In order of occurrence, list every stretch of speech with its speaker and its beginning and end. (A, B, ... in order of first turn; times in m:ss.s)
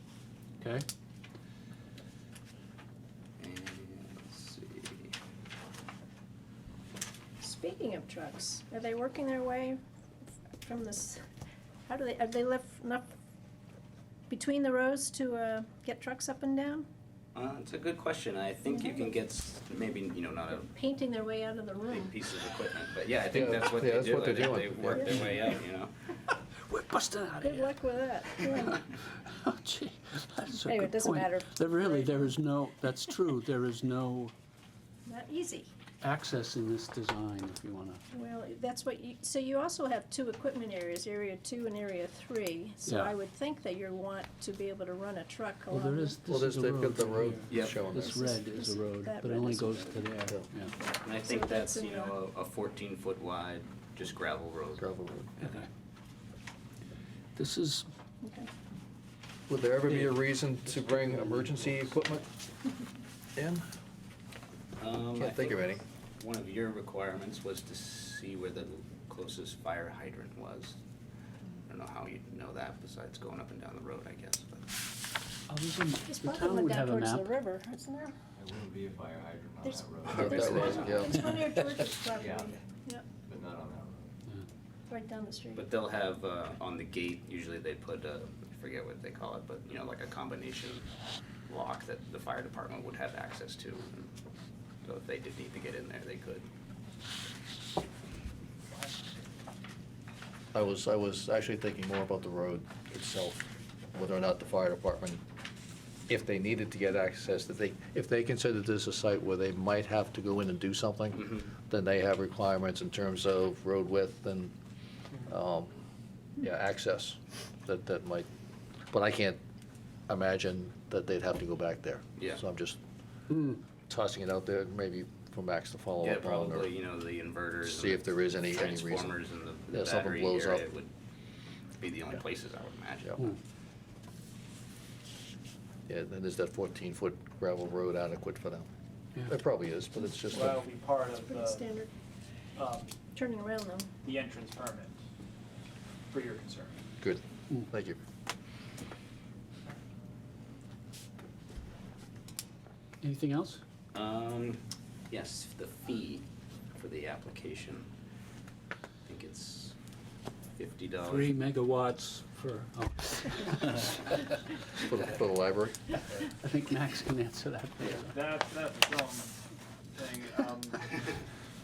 0:00.6-0:00.9 A
0:03.4-0:05.1 B
0:07.4-0:09.8 C
0:10.6-0:11.2 C
0:11.9-0:13.1 C
0:14.3-0:16.9 C
0:17.4-0:20.7 B
0:18.7-0:19.1 C
0:20.6-0:22.2 C
0:21.9-0:25.9 B
0:23.3-0:25.3 D
0:26.7-0:27.8 A
0:27.4-0:28.8 C
0:28.7-0:34.3 A
0:30.5-0:32.3 C
0:35.1-0:35.7 C
0:36.0-0:38.0 A
0:38.1-0:46.2 C
0:42.9-0:43.2 A
0:45.7-0:50.7 A
0:46.2-0:48.2 D
0:47.5-0:47.8 B
0:48.0-0:50.1 C
0:50.8-0:52.2 C
0:51.0-0:55.6 B
0:54.8-0:55.3 D
0:55.4-0:55.7 A
0:57.4-0:57.9 A
0:58.2-0:58.5 C
0:59.5-1:02.2 D
1:01.1-1:01.6 A
1:03.4-1:03.6 D
1:04.8-1:05.7 B
1:05.2-1:05.8 D
1:06.2-1:10.8 B
1:11.7-1:14.6 B
1:15.5-1:17.3 A
1:16.1-1:18.1 C
1:18.4-1:21.2 E
1:19.6-1:23.0 C
1:20.1-1:21.6 D
1:20.4-1:21.0 B
1:22.1-1:22.6 E
1:23.2-1:24.1 E
1:24.9-1:25.7 C
1:25.6-1:30.9 B
1:31.5-1:34.1 B
1:34.8-1:36.5 B
1:40.5-1:45.2 D
1:46.1-1:54.5 D
1:51.2-1:51.5 B
1:55.2-1:55.7 D
1:56.4-1:58.3 D
1:58.9-1:59.4 D
2:00.1-2:02.8 D
2:03.9-2:06.7 D
2:06.0-2:10.9 B
2:07.6-2:09.2 D
2:09.7-2:10.6 D
2:11.8-2:13.3 B
2:15.9-2:18.7 D
2:19.2-2:20.6 D
2:20.3-2:21.6 F
2:21.3-2:21.9 C
2:22.6-2:23.0 F
2:23.1-2:23.9 C
2:24.0-2:25.0 F
2:26.1-2:26.8 F
2:27.0-2:28.0 D
2:33.0-2:33.6 A
2:33.9-2:37.9 B
2:39.1-2:39.8 B
2:40.6-2:41.3 B
2:41.0-2:44.2 A
2:44.8-2:45.9 D
2:46.4-2:48.2 A
2:48.1-2:49.4 F
2:49.9-2:50.8 F